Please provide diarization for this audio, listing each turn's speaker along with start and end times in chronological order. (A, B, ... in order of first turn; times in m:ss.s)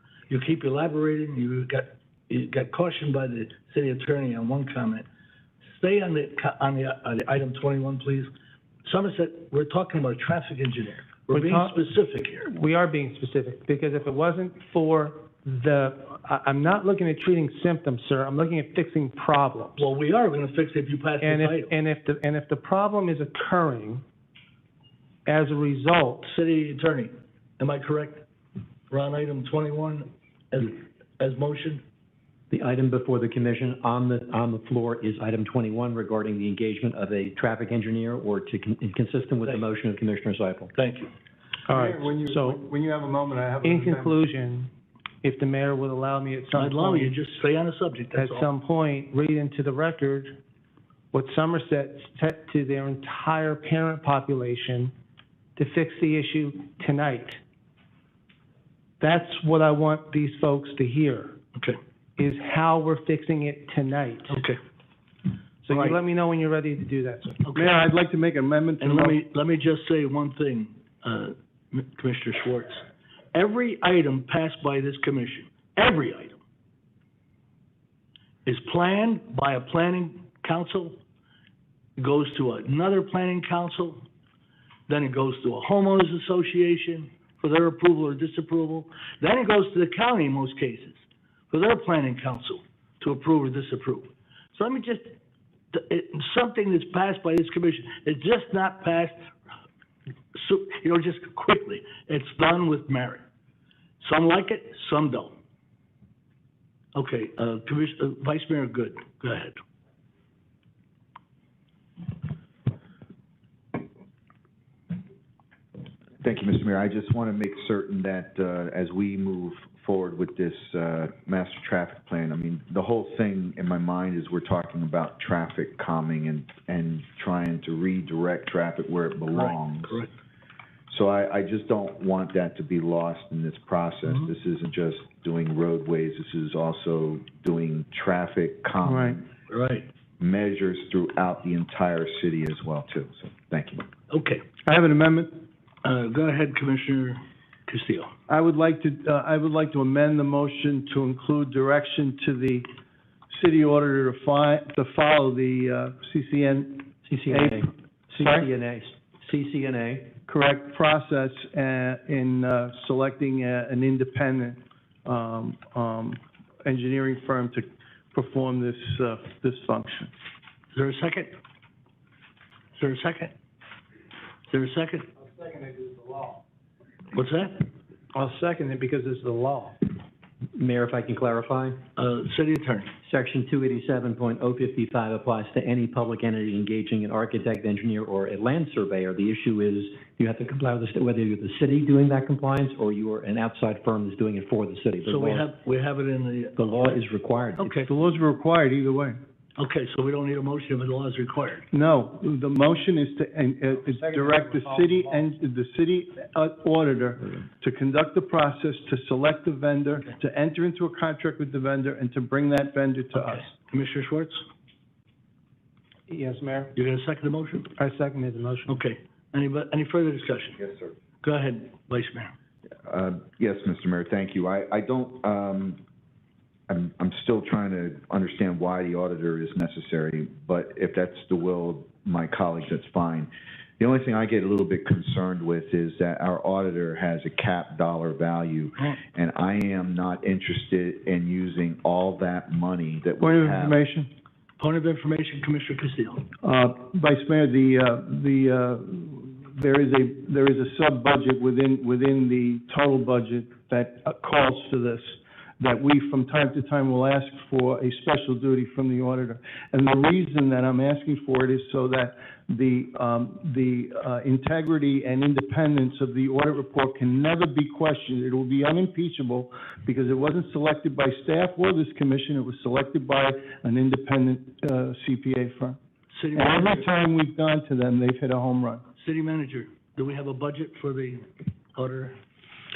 0:00.3-0:05.1 A
0:05.8-0:08.3 A
0:08.8-0:12.5 A
0:11.3-0:11.9 B
0:12.4-0:19.8 B
0:19.8-0:21.7 A
0:21.2-0:24.0 B
0:25.3-0:26.3 B
0:26.3-0:28.2 A
0:28.9-0:31.8 A
0:32.5-0:40.7 C
0:40.8-0:41.1 A
0:41.7-0:42.6 B
0:41.7-0:44.2 D
0:43.6-0:44.7 B
0:45.2-0:47.2 B
0:46.5-0:48.5 A
0:48.2-0:50.4 B
0:51.1-0:54.9 B
0:55.6-0:57.4 B
0:59.0-1:01.4 B
1:02.2-1:04.4 B
1:04.3-1:04.6 A
1:05.6-1:07.4 B
1:05.7-1:06.0 A
1:07.4-1:07.7 A
1:07.5-1:09.2 D
1:08.8-1:16.4 A
1:18.5-1:21.0 A
1:22.0-1:24.0 A
1:24.9-1:35.2 A
1:35.7-1:39.2 A
1:40.4-1:43.2 A
1:44.0-1:45.4 A
1:47.0-1:49.6 A
1:56.2-2:10.0 E
2:09.3-2:10.1 A
2:10.9-2:19.3 E
2:18.8-2:19.2 D
2:19.5-2:19.9 A
2:20.2-2:23.9 E
2:24.1-2:24.4 A
2:24.6-2:25.4 D
2:25.8-2:28.1 A
2:28.3-2:32.7 D
2:33.3-2:38.5 D
2:37.1-2:40.2 C
2:40.3-2:50.1 D
2:50.7-2:51.3 A
2:52.8-2:53.3 A
2:54.5-2:55.1 A
2:55.2-2:56.4 B
2:57.1-2:57.7 A
2:58.1-2:59.8 B
3:00.6-3:01.8 C
3:02.0-3:02.9 A
3:03.0-3:15.4 C
3:15.1-3:17.0 A
3:16.6-3:17.7 C
3:17.6-3:17.9 A
3:17.8-3:19.2 D
3:19.6-3:21.7 A
3:21.7-3:33.5 D
3:23.8-3:25.3 B
3:33.1-3:34.4 A
3:36.1-3:36.7 B
3:36.8-3:37.7 A
3:37.8-3:38.7 B
3:38.7-3:40.6 A
3:40.6-3:40.9 E
3:41.2-3:42.3 A
3:42.9-3:45.8 E
3:46.7-4:03.8 E
4:03.2-4:04.1 D
4:04.6-4:06.3 A
4:06.4-4:35.8 D
4:36.1-4:36.9 A
4:36.3-4:38.8 D
4:39.0-4:42.2 A